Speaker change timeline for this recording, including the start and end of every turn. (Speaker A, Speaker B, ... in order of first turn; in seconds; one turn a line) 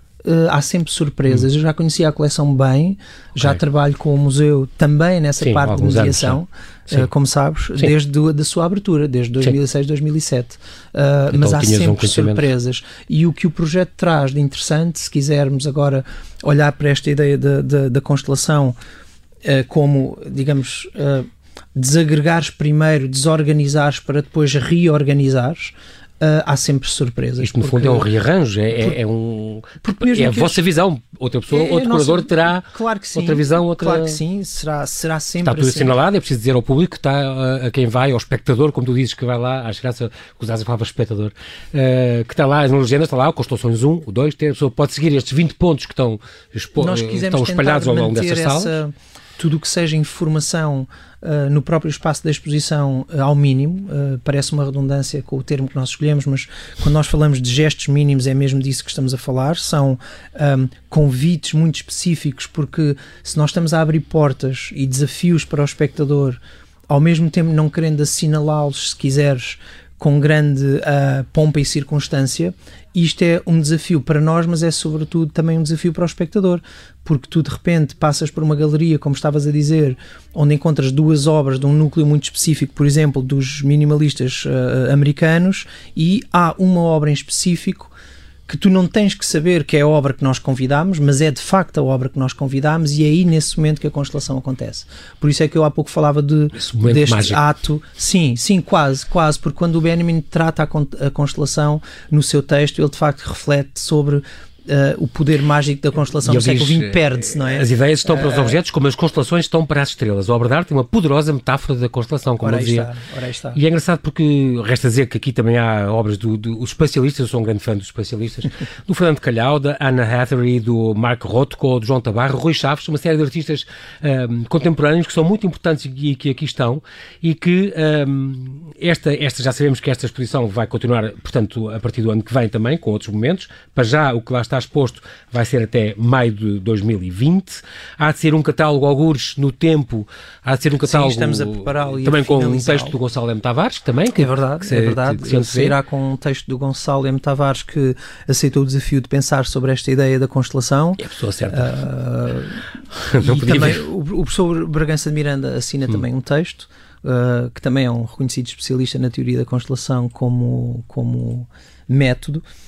Speaker A: 0.2-18.8
Speaker B: 5.4-7.1
Speaker B: 11.3-12.5
Speaker A: 19.4-28.1
Speaker B: 27.4-34.2
Speaker A: 29.8-30.7
Speaker A: 31.5-36.0
Speaker B: 35.4-48.8
Speaker A: 46.8-87.9
Speaker A: 88.5-108.6
Speaker B: 96.5-97.4
Speaker B: 106.2-112.9
Speaker A: 112.4-113.6
Speaker B: 113.5-145.8
Speaker A: 140.8-142.9
Speaker A: 144.1-152.6
Speaker B: 151.0-151.7
Speaker B: 152.9-153.8
Speaker A: 153.2-162.4